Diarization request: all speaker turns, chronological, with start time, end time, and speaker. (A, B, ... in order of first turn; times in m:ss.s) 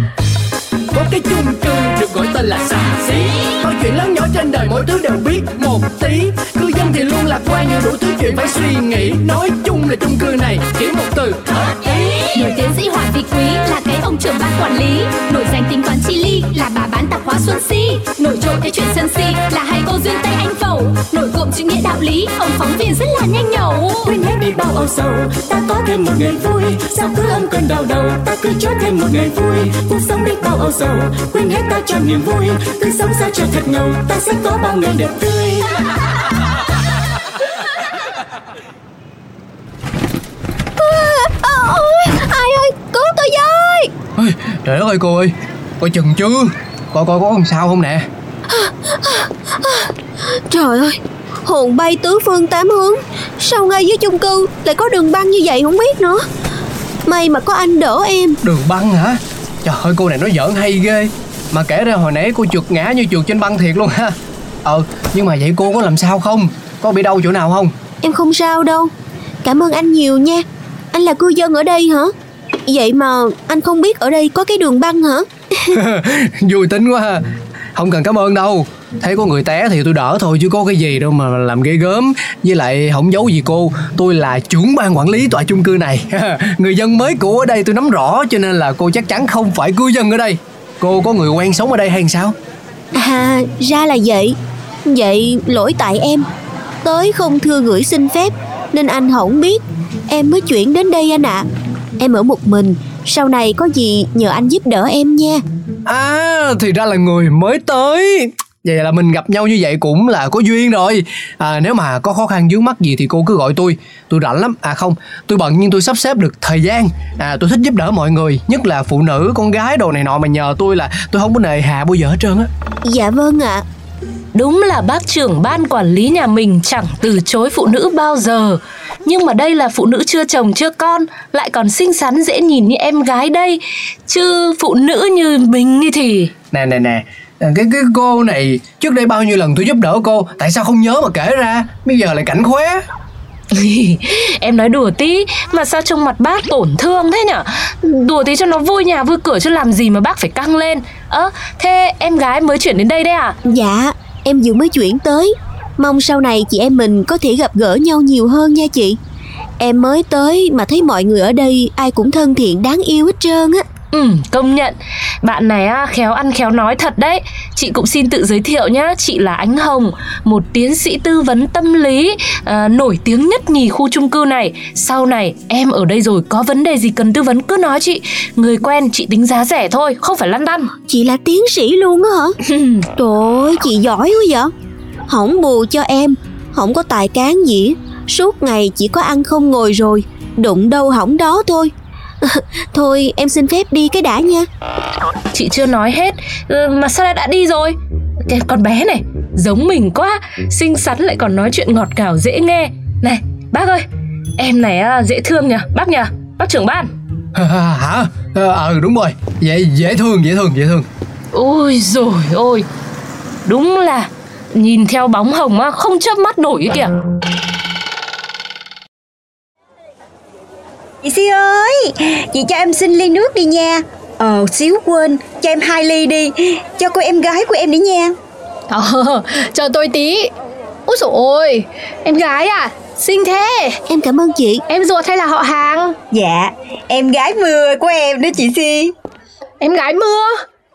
0:00.9-0:11.7 A
0:12.3-0:24.0 B
0:24.0-0:35.7 C
0:40.8-0:43.9 D
0:44.2-0:48.0 A
0:48.5-0:56.2 D
0:57.0-0:58.4 D
0:58.4-1:07.7 A
1:08.0-1:08.9 D
1:09.4-1:12.1 D
1:12.7-1:15.8 D
1:15.7-1:17.2 A
1:17.7-1:32.3 A
1:32.9-1:36.3 D
1:36.8-1:41.5 D
1:42.0-1:45.4 D
1:45.8-2:02.5 A
2:02.8-2:03.6 D
2:04.3-2:16.3 E
2:16.5-2:22.8 A
2:23.5-2:33.4 E
2:33.4-2:39.0 D
2:39.6-2:43.6 D
2:43.9-3:00.7 E
3:00.9-3:02.3 D
3:02.5-3:02.8 E
3:03.0-3:04.5 D
3:05.1-3:14.5 D
3:15.3-3:17.7 E
3:18.2-3:23.8 E
3:24.4-3:26.9 E
3:27.3-3:30.9 A
3:31.3-3:32.7 E
3:33.4-3:36.9 E
3:41.0-3:48.1 F
3:48.7-3:50.3 G
3:50.9-3:53.8 G
3:53.9-3:54.6 D
3:54.7-3:56.0 G
3:56.1-3:58.9 F
3:59.6-4:00.3 G